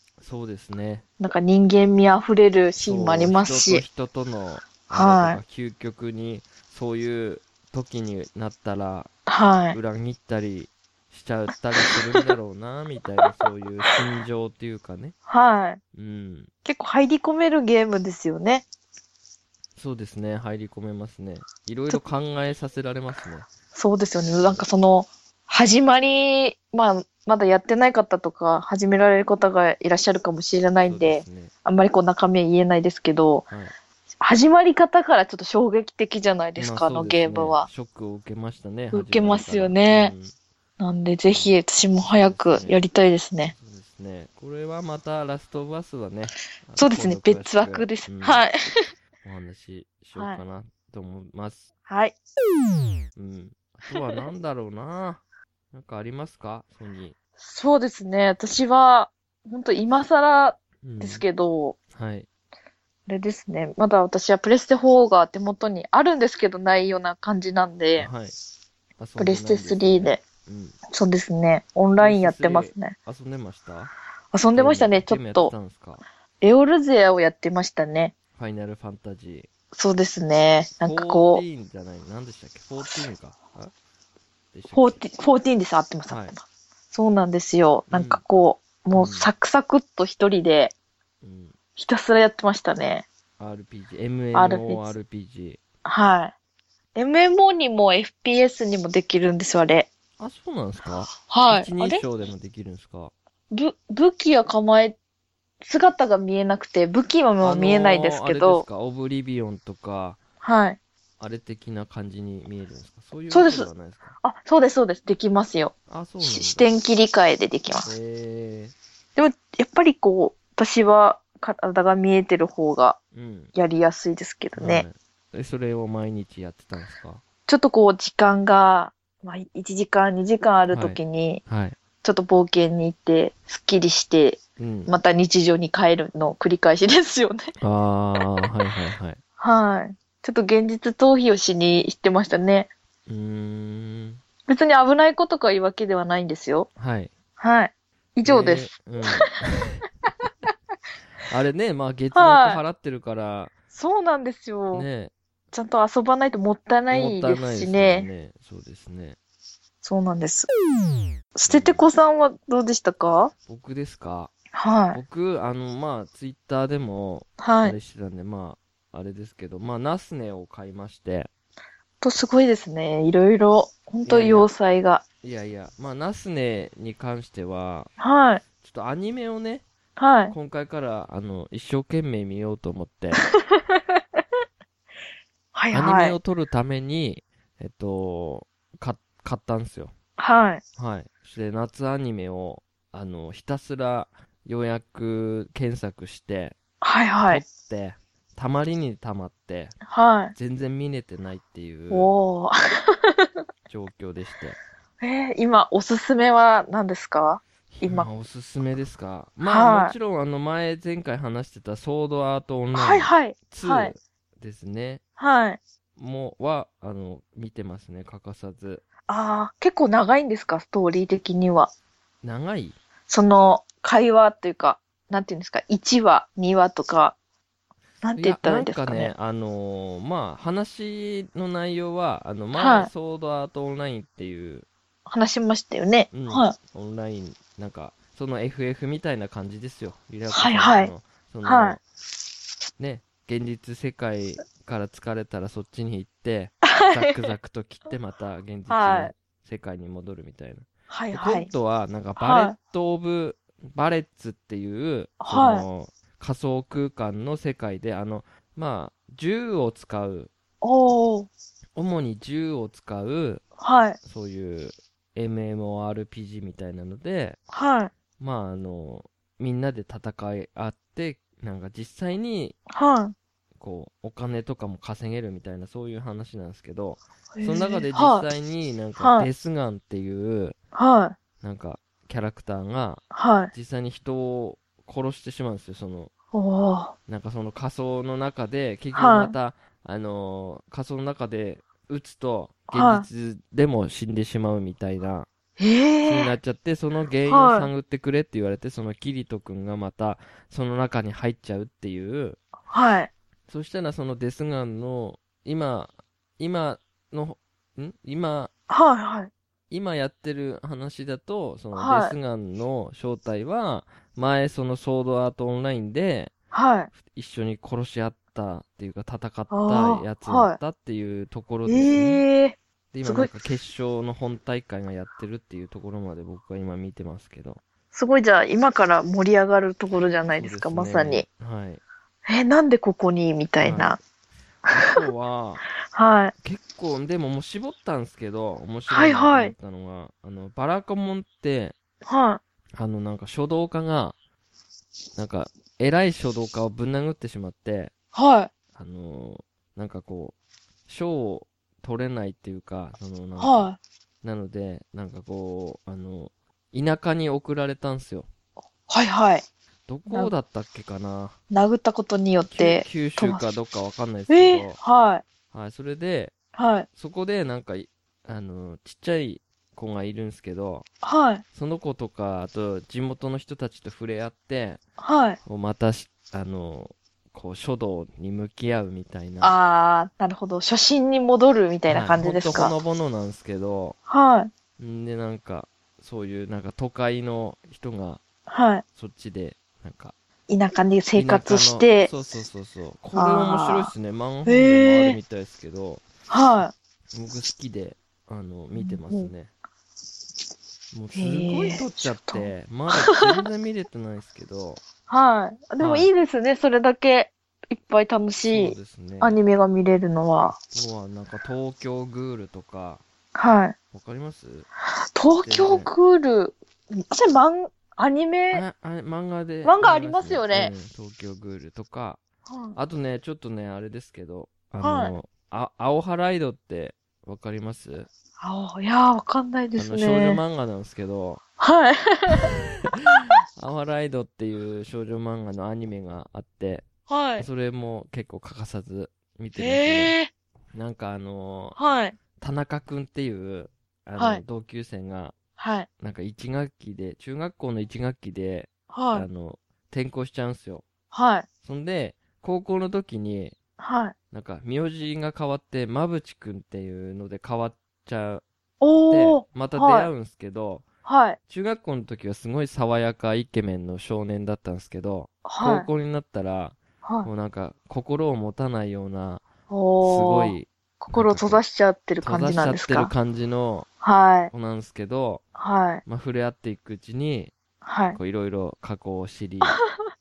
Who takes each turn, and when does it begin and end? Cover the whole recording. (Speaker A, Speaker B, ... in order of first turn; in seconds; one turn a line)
Speaker A: 0.2-1.0
Speaker B: 1.2-3.8
Speaker A: 2.8-9.1
Speaker B: 4.9-5.4
Speaker B: 9.3-9.8
Speaker A: 9.7-15.2
Speaker B: 11.8-12.3
Speaker B: 15.3-15.8
Speaker A: 15.9-16.5
Speaker B: 16.6-18.7
Speaker A: 19.8-23.5
Speaker B: 23.7-33.5
Speaker A: 24.2-24.6
Speaker A: 30.8-31.5
Speaker B: 34.2-37.7
Speaker A: 36.6-40.3
Speaker B: 38.9-40.1
Speaker B: 40.8-43.5
Speaker A: 41.3-42.8
Speaker A: 43.6-48.4
Speaker B: 46.8-48.8
Speaker A: 49.2-51.7
Speaker B: 50.1-50.4
Speaker B: 51.9-52.2
Speaker A: 53.1-57.2
Speaker B: 57.4-61.8
Speaker A: 60.8-61.2
Speaker A: 61.9-62.3
Speaker B: 63.1-68.1
Speaker A: 68.0-68.3
Speaker A: 69.0-70.8
Speaker B: 69.2-70.2
Speaker B: 70.9-73.0
Speaker A: 72.0-73.9
Speaker B: 74.3-75.5
Speaker A: 74.5-76.0
Speaker B: 76.4-78.1
Speaker A: 78.4-79.5
Speaker B: 79.7-81.4
Speaker A: 80.8-83.7
Speaker A: 84.5-85.0
Speaker B: 84.7-90.7
Speaker A: 86.1-86.3
Speaker A: 87.9-88.2
Speaker A: 88.9-89.3
Speaker A: 91.2-91.5
Speaker B: 91.8-93.1
Speaker A: 93.4-95.6
Speaker B: 94.3-94.9
Speaker B: 95.8-96.3
Speaker B: 97.0-99.9
Speaker A: 100.2-103.1
Speaker B: 101.2-102.0
Speaker B: 103.5-105.0
Speaker B: 105.6-108.6
Speaker A: 107.4-110.2
Speaker B: 110.4-110.8
Speaker A: 111.2-114.1
Speaker B: 113.3-113.7
Speaker B: 114.2-117.9
Speaker A: 115.9-116.8
Speaker A: 117.8-118.7
Speaker B: 119.2-123.0
Speaker A: 123.1-123.5
Speaker B: 123.5-124.9
Speaker A: 124.6-127.2
Speaker B: 127.5-131.4
Speaker A: 130.7-131.8
Speaker B: 132.0-137.5
Speaker A: 134.6-134.9
Speaker A: 137.6-139.2
Speaker B: 139.4-142.7
Speaker A: 143.1-144.2
Speaker B: 144.5-146.7
Speaker A: 146.8-147.1
Speaker B: 147.4-149.3
Speaker A: 148.2-149.8
Speaker A: 151.3-153.5
Speaker B: 152.1-152.6
Speaker B: 153.7-154.9
Speaker A: 154.7-155.1
Speaker B: 155.5-158.1
Speaker A: 156.9-159.2
Speaker B: 159.8-160.5
Speaker B: 161.3-163.3
Speaker A: 161.5-161.9
Speaker A: 163.5-164.3
Speaker B: 164.5-165.0
Speaker A: 164.9-171.3
Speaker B: 167.4-167.8
Speaker B: 172.0-175.0
Speaker A: 174.1-174.5
Speaker A: 175.2-177.9
Speaker B: 178.0-178.4
Speaker A: 178.6-179.7
Speaker B: 180.0-180.3
Speaker A: 180.3-183.2
Speaker B: 183.2-183.8
Speaker B: 185.6-186.2
Speaker A: 185.7-189.9
Speaker B: 190.2-190.6
Speaker A: 190.8-196.6
Speaker B: 196.8-197.4
Speaker A: 197.2-199.8
Speaker B: 199.9-200.3
Speaker A: 200.4-202.1
Speaker B: 201.9-203.3
Speaker A: 203.7-204.6
Speaker B: 205.0-208.1
Speaker A: 207.7-215.0
Speaker B: 209.4-209.9
Speaker B: 212.7-213.9
Speaker B: 215.2-215.6
Speaker A: 216.0-218.8
Speaker B: 219.1-221.7
Speaker A: 222.2-222.8
Speaker B: 223.1-227.2
Speaker B: 228.0-229.1
Speaker A: 228.2-234.7
Speaker B: 232.6-232.9
Speaker B: 235.1-236.6
Speaker A: 236.1-241.8
Speaker B: 240.3-240.9
Speaker B: 241.4-241.8
Speaker A: 242.8-260.3
Speaker B: 246.7-247.2
Speaker B: 248.7-249.1
Speaker B: 250.9-251.5
Speaker B: 252.2-252.6
Speaker B: 255.2-255.7
Speaker B: 260.6-261.3
Speaker A: 261.8-263.4
Speaker B: 263.6-264.0
Speaker A: 264.0-267.4
Speaker B: 267.5-267.9
Speaker A: 268.2-272.6
Speaker B: 272.7-273.1
Speaker A: 273.6-280.6
Speaker B: 277.4-278.3
Speaker B: 279.0-279.3
Speaker B: 280.8-281.2
Speaker A: 281.4-286.1
Speaker B: 283.1-283.5
Speaker B: 286.3-286.9
Speaker A: 287.1-295.3
Speaker B: 288.9-289.3
Speaker B: 292.7-293.1
Speaker B: 295.6-296.3
Speaker A: 296.1-302.4
Speaker B: 297.3-297.7
Speaker B: 302.7-303.1
Speaker A: 303.5-308.5
Speaker B: 308.7-309.3
Speaker A: 309.7-316.3
Speaker B: 311.8-312.1
Speaker B: 316.5-316.9
Speaker A: 316.9-322.2
Speaker B: 319.5-320.6
Speaker B: 321.7-323.3
Speaker A: 322.9-327.6
Speaker B: 327.9-331.2
Speaker A: 330.4-331.8
Speaker B: 332.3-334.0
Speaker A: 333.6-334.0
Speaker B: 334.7-335.0
Speaker A: 334.7-335.6
Speaker B: 335.9-336.3
Speaker A: 336.4-341.8
Speaker B: 338.9-339.5
Speaker B: 342.1-342.4
Speaker A: 342.8-344.2
Speaker A: 345.2-347.9
Speaker B: 348.1-348.5
Speaker A: 348.8-350.4
Speaker A: 350.9-353.7
Speaker B: 353.4-353.8
Speaker A: 354.2-358.3
Speaker B: 358.9-359.4
Speaker A: 359.9-361.4
Speaker B: 361.5-363.4
Speaker A: 362.5-364.8
Speaker B: 364.3-365.2
Speaker A: 365.5-366.4
Speaker B: 366.6-366.9
Speaker A: 366.9-370.9
Speaker B: 371.0-371.4
Speaker A: 371.5-374.8
Speaker B: 375.0-375.4
Speaker A: 375.4-379.6
Speaker B: 379.4-382.7
Speaker A: 381.9-384.0
Speaker B: 384.1-384.5
Speaker A: 384.8-388.2
Speaker B: 388.5-388.8
Speaker A: 388.9-390.1
Speaker B: 390.5-392.1
Speaker A: 391.1-396.0
Speaker B: 393.1-393.9
Speaker B: 394.5-395.2
Speaker B: 396.3-396.7
Speaker A: 397.1-399.5
Speaker B: 398.8-399.3
Speaker A: 400.9-404.8
Speaker B: 401.1-403.4
Speaker B: 405.1-410.6
Speaker A: 405.8-406.1
Speaker A: 408.5-409.4
Speaker A: 410.6-413.0
Speaker B: 413.4-413.8
Speaker A: 413.9-414.7
Speaker B: 415.1-418.6
Speaker A: 415.4-415.9
Speaker A: 418.5-422.2
Speaker B: 419.6-420.7
Speaker B: 422.5-422.8
Speaker A: 422.8-428.1
Speaker B: 424.8-425.2
Speaker B: 428.4-430.4
Speaker A: 429.8-431.4
Speaker B: 431.6-432.5
Speaker A: 433.6-440.1
Speaker B: 437.1-437.5
Speaker B: 439.6-440.3
Speaker A: 440.7-441.8
Speaker B: 441.8-442.2
Speaker A: 442.4-445.4
Speaker B: 444.2-444.4
Speaker B: 445.6-445.9
Speaker A: 446.0-450.9
Speaker B: 448.9-449.3
Speaker B: 451.1-451.5
Speaker A: 451.6-453.6
Speaker B: 453.8-454.1
Speaker A: 454.3-458.4
Speaker B: 458.8-460.1
Speaker A: 459.1-460.9
Speaker B: 461.1-461.4
Speaker A: 461.5-469.4
Speaker B: 465.5-465.9
Speaker B: 467.0-467.3
Speaker B: 469.7-473.1
Speaker A: 470.0-471.6
Speaker A: 472.2-473.9
Speaker B: 474.0-474.5
Speaker A: 474.5-475.4
Speaker B: 475.6-476.0
Speaker A: 476.1-477.6
Speaker B: 477.8-478.2
Speaker A: 478.1-479.8